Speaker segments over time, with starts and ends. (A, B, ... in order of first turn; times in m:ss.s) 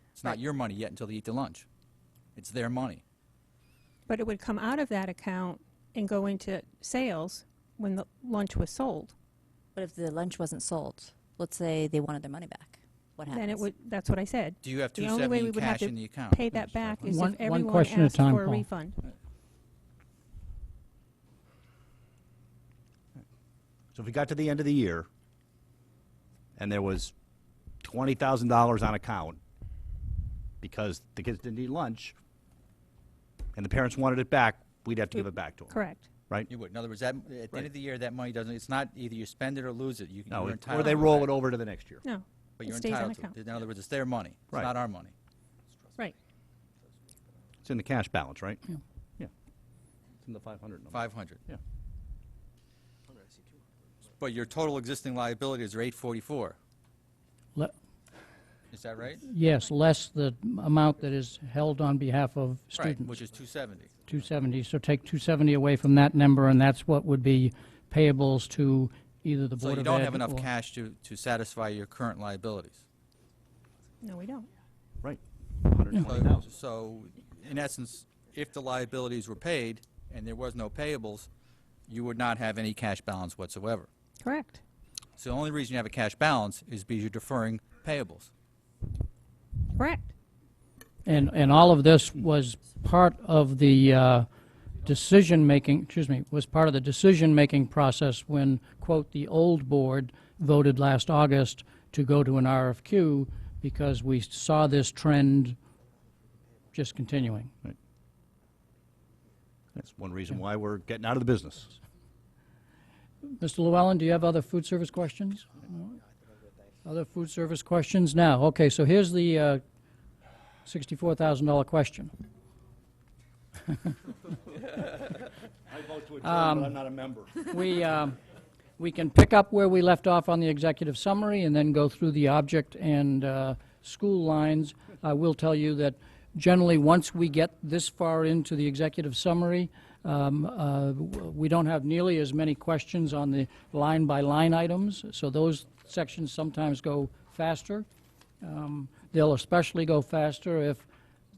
0:00.2-0:01.7 A
0:02.4-0:03.0 A
0:04.1-0:09.1 B
0:09.8-0:13.7 C
0:13.3-0:19.0 B
0:14.6-0:17.1 A
0:17.0-0:18.7 D
0:24.0-0:25.1 E
0:26.6-0:27.1 E
0:27.8-0:29.4 E
0:30.6-0:32.2 E
0:33.6-0:35.8 E
0:35.7-0:36.1 B
0:36.5-0:41.3 A
0:40.3-0:42.0 E
0:42.0-0:43.4 B
0:42.6-0:45.1 A
0:47.6-0:48.6 E
0:50.2-0:51.6 E
0:50.9-0:51.4 A
0:54.2-0:56.6 A
0:58.7-0:59.2 A
0:59.2-1:03.2 D
1:02.7-1:03.9 A
1:04.1-1:10.5 D
1:09.6-1:12.8 A
1:14.0-1:14.5 B
1:15.0-1:16.4 E
1:16.0-1:21.3 A
1:21.9-1:23.9 A
1:24.2-1:24.6 B
1:25.2-1:28.3 A
1:29.7-1:30.1 B
1:31.0-1:34.3 D
1:34.8-1:45.6 D
1:46.7-1:47.5 D
1:49.7-1:51.8 E
1:53.4-1:56.0 D
1:56.8-1:59.6 D
2:00.6-2:02.1 D
2:05.7-2:07.4 E
2:06.2-2:06.8 D
2:07.5-2:08.2 D
2:08.8-2:27.9 D
2:28.4-2:30.9 D